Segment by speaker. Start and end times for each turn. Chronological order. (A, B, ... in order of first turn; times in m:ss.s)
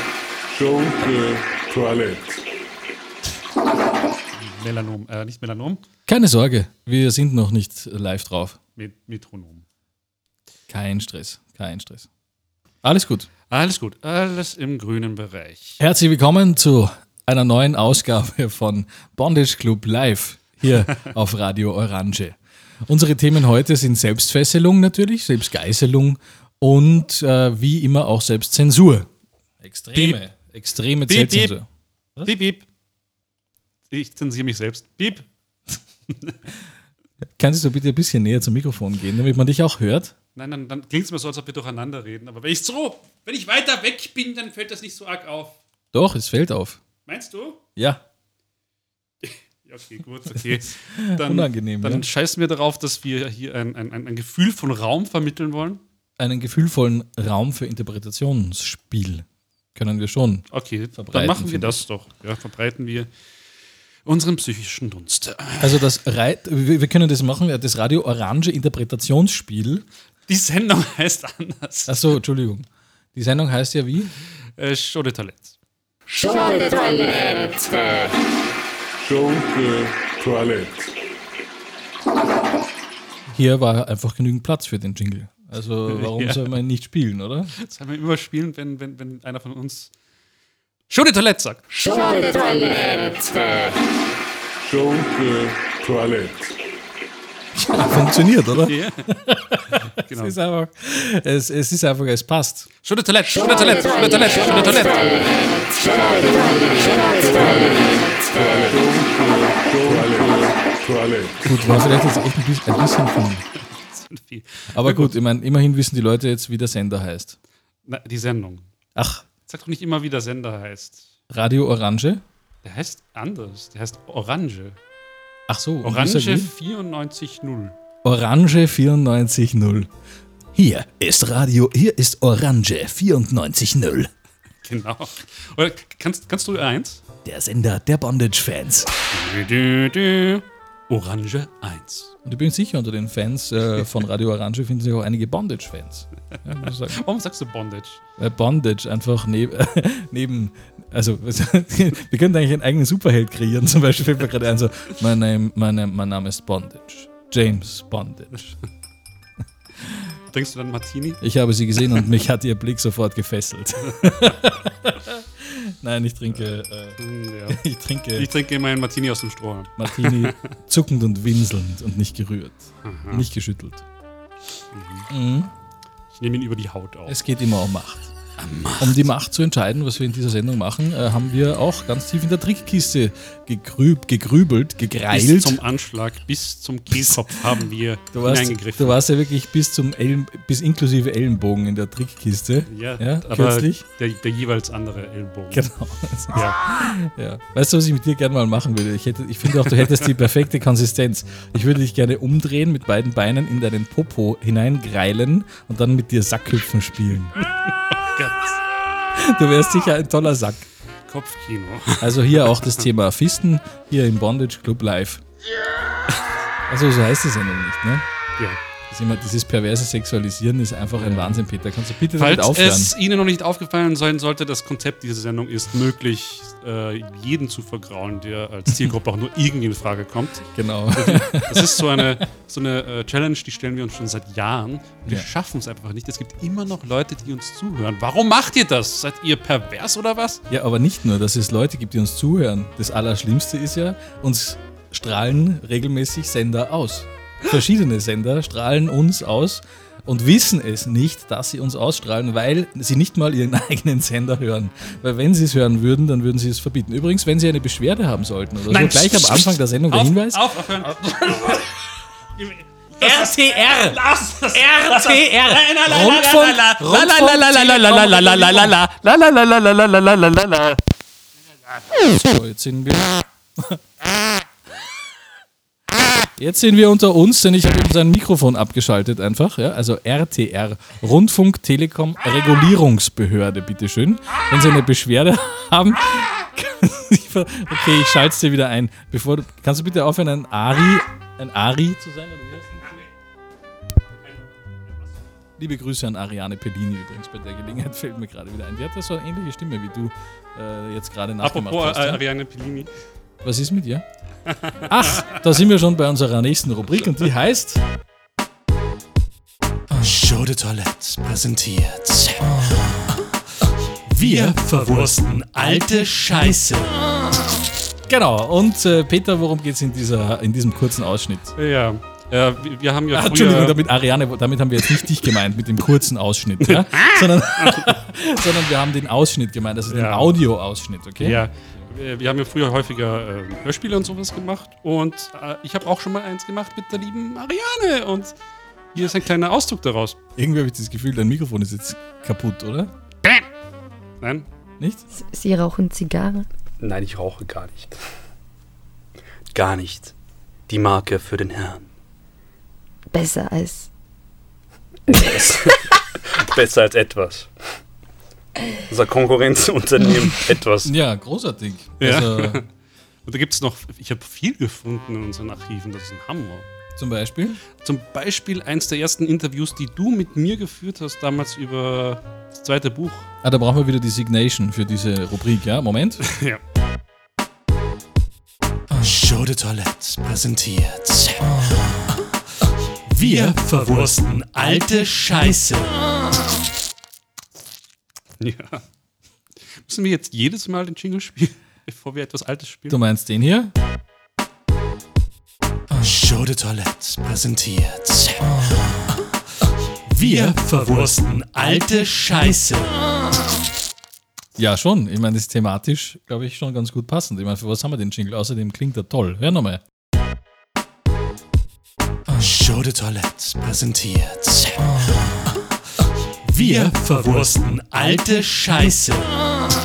0:00.5-0:02.4 A
0:04.3-0:05.8 B
0:06.1-0:08.6 C
0:08.8-0:09.6 B
0:10.7-0:12.1 C
0:12.8-0:13.3 C
0:13.5-0:15.8 B
0:15.8-0:29.1 C
0:29.6-0:32.3 C
0:31.1-0:31.5 B
0:32.2-0:32.6 B
0:33.9-0:35.3 B
0:37.4-0:40.2 C
0:40.4-0:45.6 B
0:45.9-0:46.8 C
0:47.1-0:47.6 B
0:47.8-0:48.0 C
0:49.2-0:55.8 B
0:50.5-0:52.1 C
0:56.2-1:01.8 C
1:00.5-1:03.1 B
1:04.0-1:05.9 B
1:05.6-1:09.9 C
1:10.3-1:12.0 B
1:11.9-1:14.1 C
1:14.6-1:15.6 B
1:16.9-1:18.1 A
1:19.0-1:20.9 A
1:23.3-1:27.5 C
1:25.9-1:26.4 B
1:27.6-1:29.9 B
1:30.9-1:32.7 B
1:34.6-1:36.6 A
1:37.6-1:42.7 C
1:38.6-1:39.1 B
1:40.0-1:40.4 B
1:42.8-1:46.1 B
1:46.5-1:51.5 A
1:51.4-1:53.5 C
1:53.6-1:55.2 B
1:54.7-1:57.4 C
1:57.8-1:58.7 B
1:59.0-1:59.2 C
1:59.5-2:01.1 B
2:01.3-2:02.2 C
2:02.6-2:04.8 B
2:05.5-2:06.5 C
2:05.8-2:07.8 B
2:08.0-2:09.9 C
2:10.6-2:14.1 C
2:14.6-2:17.0 B
2:17.2-2:18.9 C
2:19.1-2:22.1 B
2:22.2-2:27.0 C
2:26.9-2:28.0 B
2:28.2-2:38.6 C
2:40.3-2:41.2 B
2:41.2-2:48.3 C
2:47.0-2:47.6 B
2:48.2-2:50.4 B
2:49.8-2:53.8 C
2:52.8-2:53.3 B
2:54.7-2:55.1 B
2:55.1-2:55.5 C
2:56.1-2:57.2 B
2:57.1-2:58.1 C
2:58.4-2:59.1 B
2:58.8-3:05.6 C
3:05.1-3:09.0 B
3:06.9-3:07.2 C
3:08.1-3:13.8 C
3:12.7-3:15.7 B
3:15.5-3:27.3 C
3:16.3-3:16.6 B
3:27.6-3:28.6 B
3:29.2-3:30.6 C
3:31.1-3:32.8 B
3:32.0-3:35.2 C
3:36.7-3:38.1 C
3:38.9-3:42.9 C
3:41.0-3:41.4 B
3:42.1-4:00.4 B
3:50.5-3:52.2 C
4:00.5-4:20.6 C
4:18.7-4:21.6 B
4:22.9-4:28.9 B
4:23.0-4:24.0 C
4:24.5-4:30.6 C
4:31.9-4:33.8 C
4:36.4-4:52.9 C
4:55.6-5:02.2 C
5:01.4-5:02.9 B
5:03.4-5:04.0 C
5:04.8-5:05.4 B
5:04.9-5:07.8 C
5:10.0-5:12.8 D
5:14.1-5:16.8 C
5:14.2-5:16.6 B
5:14.8-5:16.8 D
5:18.1-5:21.6 C
5:21.6-5:23.8 B
5:23.1-5:31.5 C
5:26.6-5:27.9 B
5:29.9-5:30.3 B
5:31.2-5:38.4 B
5:38.9-5:40.2 B
5:40.4-5:42.9 C
5:44.2-5:44.5 B
5:45.1-5:46.5 E
5:46.8-5:47.9 F
5:49.5-5:50.1 F
5:50.7-5:51.9 F
5:53.1-5:53.9 E
5:55.3-5:55.6 F
5:56.4-5:57.5 F
5:58.9-6:00.9 F
6:00.8-6:02.6 C
6:02.0-6:02.7 B
6:03.2-6:06.7 B
6:07.0-6:07.6 C
6:07.8-6:13.3 B
6:13.4-6:16.2 C
6:16.3-6:16.6 B
6:19.0-6:21.6 D
6:23.1-6:25.7 B
6:23.2-6:23.9 C
6:23.9-6:24.4 D
6:24.6-6:25.8 C
6:28.4-6:28.8 B
6:29.9-6:33.0 B
6:32.9-6:33.7 C
6:36.0-6:38.7 D
6:40.2-6:42.7 B
6:40.2-6:40.7 C
6:40.6-6:42.3 D
6:44.6-6:49.8 C
6:52.4-6:55.1 D
6:56.6-6:59.3 D
6:56.8-6:57.2 C